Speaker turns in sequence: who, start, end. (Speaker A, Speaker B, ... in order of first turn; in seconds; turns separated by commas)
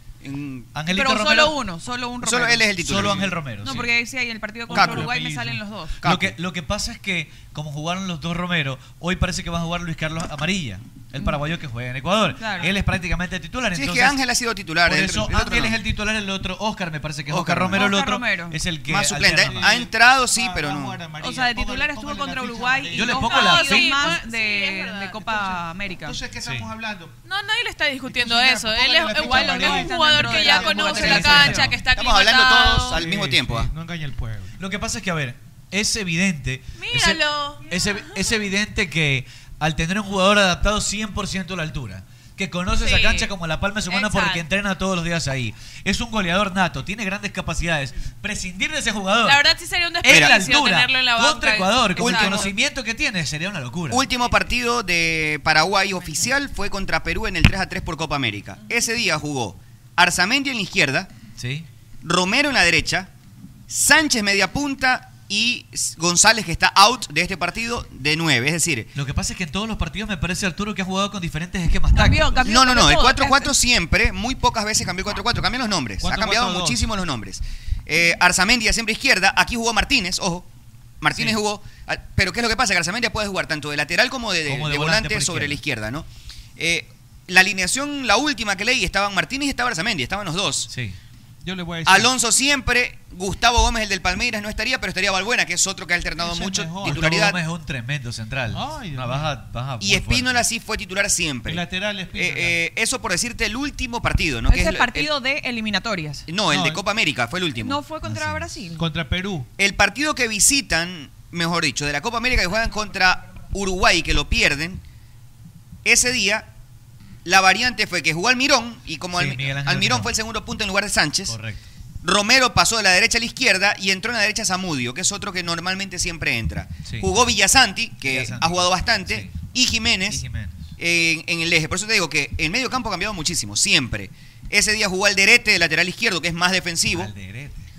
Speaker A: 0.2-0.7, Speaker B: 0.7-1.6, Speaker C: 0.8-2.7, Speaker A: 2.2-3.5, Speaker B: 2.8-3.9, Speaker C: 3.6-6.0, Speaker B: 4.7-5.5, Speaker A: 4.7-5.1, Speaker D: 5.1-5.5, Speaker A: 6.0-6.3, Speaker B: 6.0-14.2, Speaker C: 12.3-12.8, Speaker A: 13.7-15.8, Speaker B: 14.8-19.8, Speaker A: 17.3-17.9, Speaker C: 17.7-18.6, Speaker A: 18.8-21.1, Speaker D: 19.4-23.1, Speaker C: 21.2-26.2, Speaker B: 22.9-24.1, Speaker E: 23.0-25.5, Speaker D: 25.3-27.1, Speaker B: 26.4-26.7, Speaker E: 27.2-33.0, Speaker D: 28.1-31.6, Speaker C: 29.1-31.7, Speaker B: 31.0-31.8, Speaker A: 31.9-33.7, Speaker D: 32.9-34.5, Speaker B: 34.6-49.4, Speaker E: 36.8-38.1, Speaker E: 42.8-43.3, Speaker E: 43.9-44.5, Speaker E: 49.2-52.5, Speaker B: 50.0-54.0, Speaker A: 50.1-50.3, Speaker A: 52.0-52.5, Speaker A: 53.9-61.1, Speaker C: 56.0-56.3, Speaker B: 61.4-61.6, Speaker A: 62.0-63.1, Speaker A: 63.7-68.9, Speaker B: 68.9-72.5, Speaker C: 71.9-73.5, Speaker A: 72.4-80.5, Speaker D: 76.0-76.8, Speaker A: 81.0-86.0, Speaker B: 84.5-85.6, Speaker A: 86.6-90.7, Speaker B: 90.7-91.0, Speaker D: 91.4-92.1, Speaker A: 91.8-97.4, Speaker D: 96.2-97.1, Speaker B: 96.8-100.4, Speaker D: 98.5-99.3, Speaker A: 99.8-105.1, Speaker D: 101.4-102.6, Speaker C: 104.5-106.3, Speaker A: 106.3-107.9, Speaker D: 106.4-106.8, Speaker C: 107.6-108.8, Speaker B: 108.0-108.5, Speaker D: 108.8-109.5, Speaker A: 109.6-114.8, Speaker A: 115.8-116.5, Speaker A: 117.2-121.4, Speaker B: 119.1-120.1, Speaker B: 121.3-121.6, Speaker A: 122.0-130.2, Speaker B: 126.8-127.1, Speaker B: 128.0-129.5, Speaker B: 130.0-130.7, Speaker A: 130.8-137.1, Speaker B: 136.9-137.6